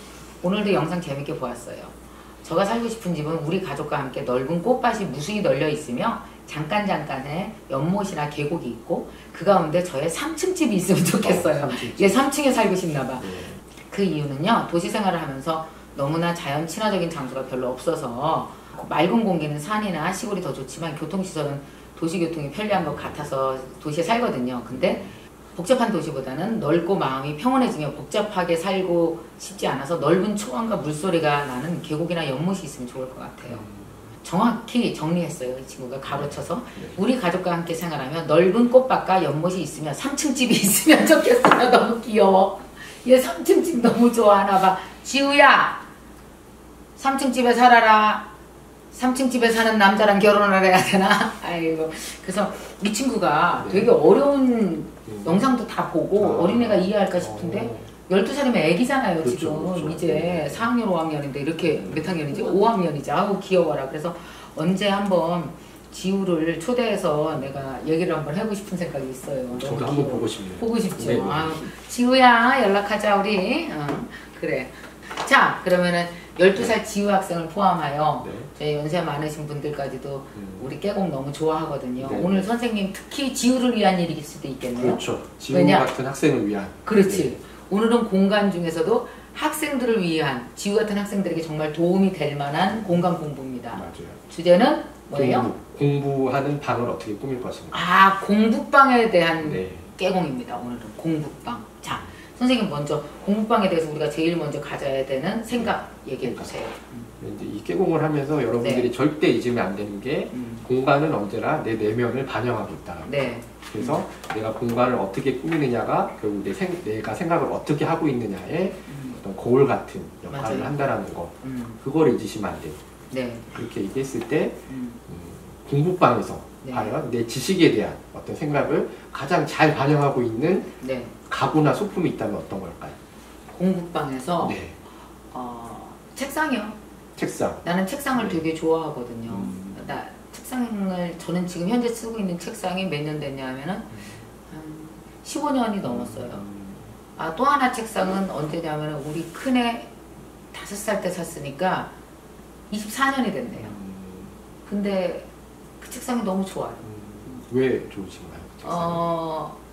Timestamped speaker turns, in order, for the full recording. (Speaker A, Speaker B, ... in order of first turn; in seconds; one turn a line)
Speaker A: 0.4-25.0
Speaker B: 11.2-12.2
Speaker B: 13.2-13.6
Speaker B: 22.7-23.3
Speaker B: 24.7-25.2
Speaker A: 25.6-33.7
Speaker B: 33.4-34.1
Speaker A: 34.2-45.8
Speaker B: 36.1-37.0
Speaker A: 47.0-48.3
Speaker A: 48.9-85.9
Speaker B: 53.6-53.9
Speaker B: 55.1-55.5
Speaker B: 56.2-57.9
Speaker B: 59.2-60.7
Speaker B: 61.6-62.6
Speaker B: 67.3-67.6
Speaker B: 69.5-71.7
Speaker B: 78.2-78.5
Speaker B: 80.3-80.7
Speaker B: 82.0-82.5
Speaker B: 84.7-87.4
Speaker A: 86.8-95.5
Speaker B: 92.7-93.1
Speaker B: 93.7-94.2
Speaker B: 95.1-97.8
Speaker A: 97.7-107.1
Speaker B: 99.4-99.9
Speaker B: 105.5-106.6
Speaker B: 107.2-122.8
Speaker A: 108.6-108.9
Speaker A: 110.3-110.7
Speaker A: 113.0-114.0
Speaker A: 118.9-119.2
Speaker A: 120.3-120.8
Speaker A: 121.4-121.8
Speaker A: 123.1-123.5
Speaker B: 123.5-130.7
Speaker A: 124.7-125.0
Speaker A: 126.6-127.0
Speaker A: 130.8-131.1
Speaker B: 131.3-133.0
Speaker A: 133.5-134.6
Speaker B: 134.4-134.8
Speaker A: 135.3-136.8
Speaker B: 137.2-137.6
Speaker A: 137.6-143.9
Speaker B: 138.1-138.4
Speaker B: 139.3-139.9
Speaker B: 143.9-144.2
Speaker A: 144.5-146.4
Speaker B: 145.8-146.9
Speaker A: 147.2-149.9
Speaker A: 150.5-151.9
Speaker A: 152.7-153.8
Speaker B: 153.6-154.4
Speaker A: 154.7-155.3
Speaker A: 155.8-156.9
Speaker B: 156.8-159.0
Speaker A: 158.6-159.6